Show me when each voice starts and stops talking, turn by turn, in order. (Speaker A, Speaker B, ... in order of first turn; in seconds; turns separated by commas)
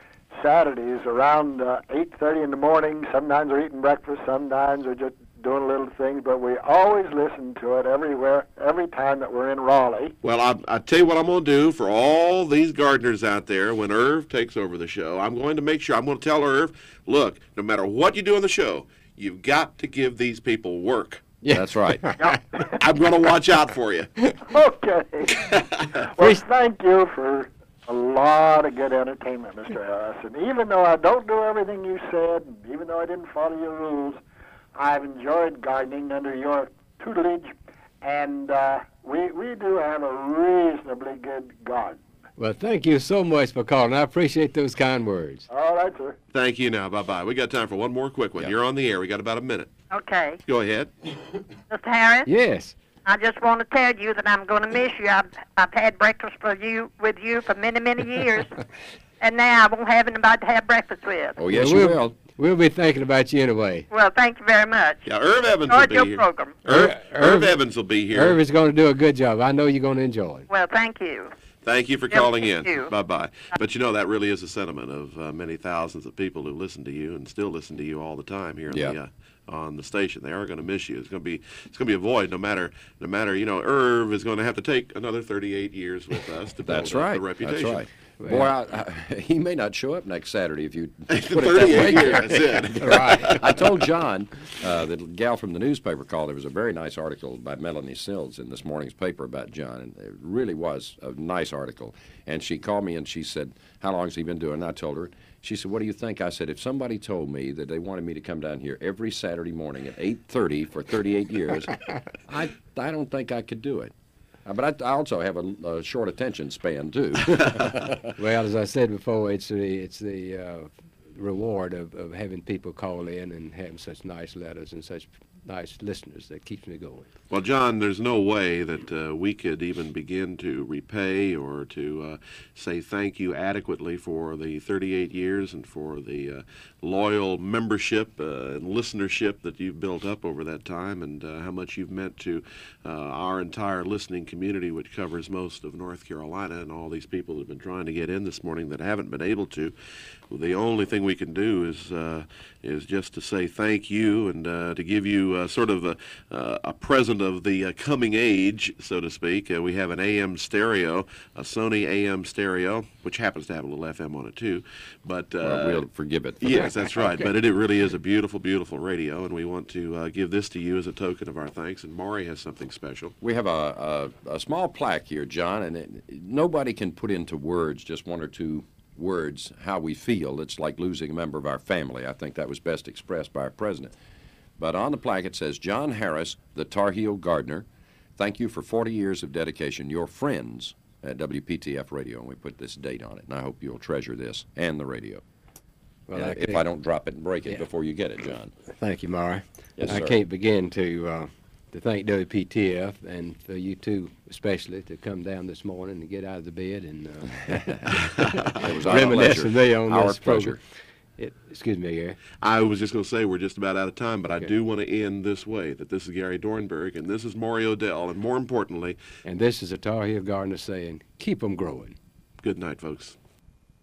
Speaker A: 0.3-10.1, Speaker B: 10.2-21.2, Speaker C: 21.4-22.4, Speaker D: 21.5-22.1, Speaker A: 22.2-22.7, Speaker B: 22.8-24.1, Speaker A: 24.5-25.5, Speaker B: 25.4-26.1, Speaker A: 26.2-34.2, Speaker A: 34.8-42.0, Speaker C: 42.4-45.5, Speaker A: 45.5-46.2, Speaker B: 46.3-49.7, Speaker E: 49.9-50.4, Speaker B: 50.5-50.9, Speaker E: 51.7-52.3, Speaker C: 52.3-52.8, Speaker E: 53.1-58.5, Speaker E: 59.2-61.4, Speaker D: 61.4-62.1, Speaker C: 61.5-63.9, Speaker E: 63.9-65.0, Speaker B: 65.0-68.4, Speaker E: 65.7-66.6, Speaker C: 66.7-67.6, Speaker C: 68.1-70.5, Speaker E: 70.5-71.3, Speaker B: 71.7-87.8, Speaker E: 72.1-72.9, Speaker D: 78.7-79.0, Speaker D: 86.7-113.9, Speaker C: 88.2-88.5, Speaker B: 91.1-93.7, Speaker C: 92.8-93.4, Speaker D: 114.5-118.1, Speaker C: 118.2-127.1, Speaker B: 127.3-149.8, Speaker B: 150.3-165.9, Speaker D: 165.4-167.3, Speaker B: 166.4-173.2, Speaker D: 173.2-183.9, Speaker D: 184.6-187.7, Speaker D: 188.2-195.2, Speaker C: 196.1-196.7, Speaker D: 196.1-198.5, Speaker C: 198.7-207.9, Speaker D: 199.8-200.2, Speaker D: 208.6-210.6, Speaker C: 208.8-210.6, Speaker C: 211.2-212.2, Speaker B: 212.4-219.0, Speaker C: 219.2-222.0, Speaker B: 222.4-223.2